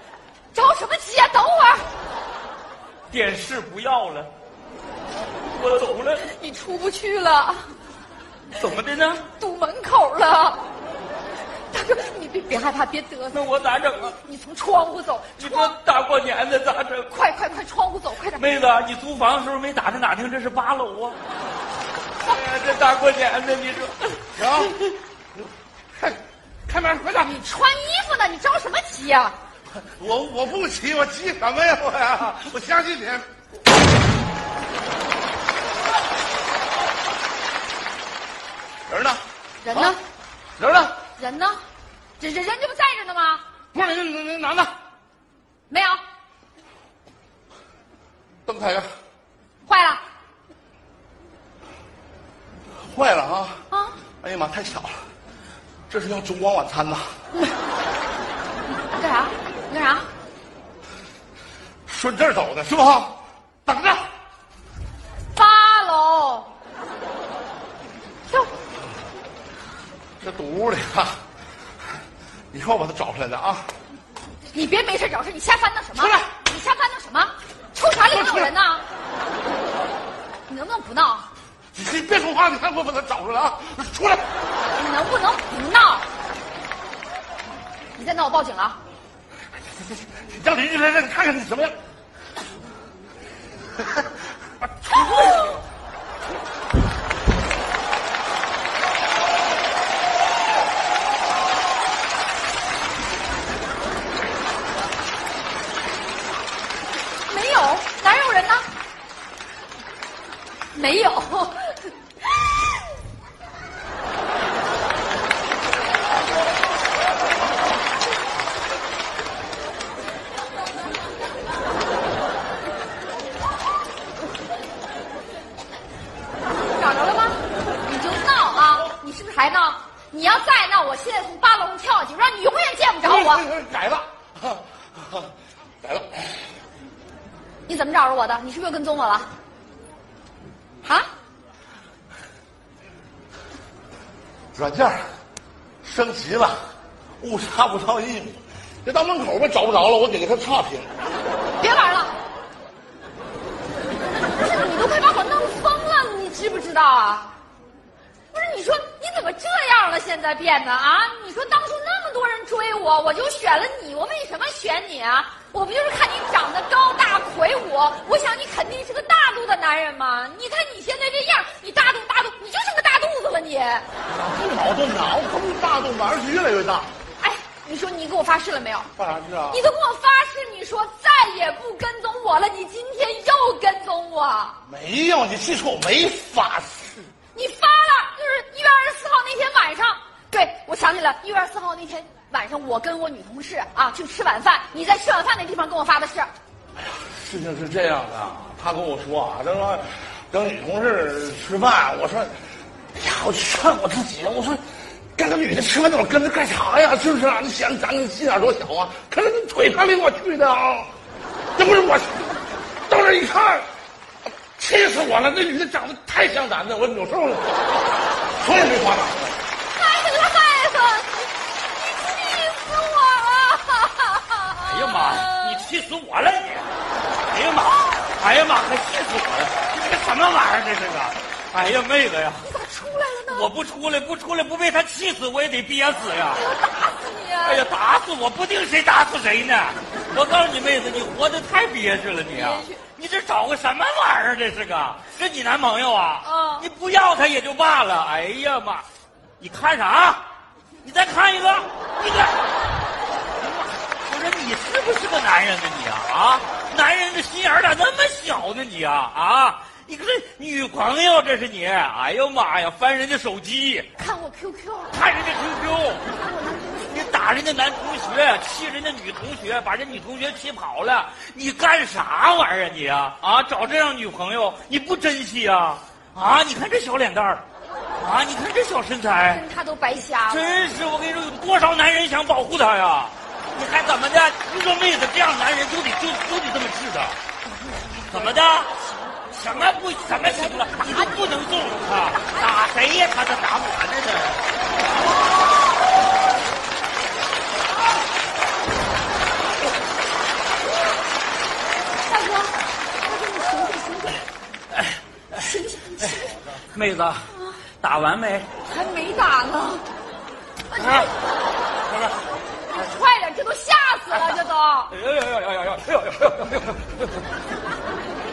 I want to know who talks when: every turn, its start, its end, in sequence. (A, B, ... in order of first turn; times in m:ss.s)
0:00.5-0:01.9 A
0:03.1-0:04.3 B
0:05.5-0:06.3 B
0:06.2-0:07.7 A
0:08.5-0:09.3 B
0:09.4-0:10.6 A
0:11.7-0:13.4 A
0:13.3-0:14.2 B
0:14.0-0:15.7 A
0:15.4-0:17.1 B
0:17.1-0:18.5 A
0:18.4-0:21.2 B
0:22.2-0:24.7 B
0:24.4-0:24.7 C
0:26.0-0:27.3 C
0:27.2-0:29.4 A
0:29.8-0:33.3 C
0:38.9-0:39.2 C
0:39.6-0:40.0 A
0:40.6-0:41.0 C
0:41.2-0:41.6 A
0:42.2-0:43.4 A
0:43.7-0:44.7 C
0:45.7-0:46.0 A
0:48.5-0:48.9 C
0:49.7-0:50.0 A
0:52.9-0:53.6 C
0:53.7-0:54.0 A
0:54.2-0:55.0 C
0:55.9-0:57.1 C
0:58.8-1:00.1 A
1:01.9-1:04.1 C
1:05.4-1:06.5 A
1:10.2-1:11.2 C
1:12.5-1:13.7 C
1:14.5-1:18.8 A
1:16.0-1:16.2 C
1:20.5-1:21.3 A
1:21.8-1:24.3 C
1:24.8-1:26.1 A
1:28.0-1:28.8 A
1:29.8-1:31.8 C
1:34.9-1:35.6 A
1:47.3-1:48.7 A
1:50.7-1:51.9 A
2:06.7-2:13.5 A
2:13.2-2:14.6 C
2:15.8-2:16.3 C
2:17.7-2:19.3 A
2:24.6-2:25.1 C
2:25.8-2:26.6 C
2:27.2-2:30.9 C
2:31.6-2:32.2 A
2:34.3-2:37.3 A
2:38.3-2:53.9 A
2:54.1-2:56.9 C
2:57.2-2:58.9 A
2:59.0-2:59.6 C
2:59.5-3:04.6 A
3:04.7-3:07.0 C
3:07.4-3:16.3 A
3:16.8-3:22.4 C
3:23.0-3:24.6 C
3:25.2-3:30.9 C
3:31.6-3:32.2 C
3:32.9-3:33.7 C
3:34.6-3:37.5 C
3:38.4-3:39.3 C
3:39.8-3:45.6 A
3:44.6-3:46.7 B
3:47.3-3:52.5 B
3:52.4-3:53.5 A
3:53.3-3:56.4 B
3:56.3-3:57.7 A
3:57.4-4:08.8 B
4:02.3-4:02.8 A
4:06.2-4:06.7 A
4:09.4-4:10.2 B
4:10.8-4:12.4 B
4:14.0-4:23.9 B
4:24.0-4:25.0 A
4:24.9-4:26.0 B
4:26.1-4:26.9 A
4:26.9-4:37.4 B
4:38.0-4:39.4 B
4:39.3-4:40.7 A
4:40.3-4:47.2 B
4:47.4-4:49.5 A
4:48.1-4:48.7 B
4:49.3-4:54.4 B
4:50.6-4:51.1 A
5:02.1-5:04.3 A
5:05.3-5:06.4 A
5:06.7-5:08.5 B
5:07.3-5:07.6 A
5:08.7-5:09.8 A
5:10.8-5:11.1 A
5:10.8-5:11.1 B
5:12.7-5:14.9 A
5:14.9-5:17.1 B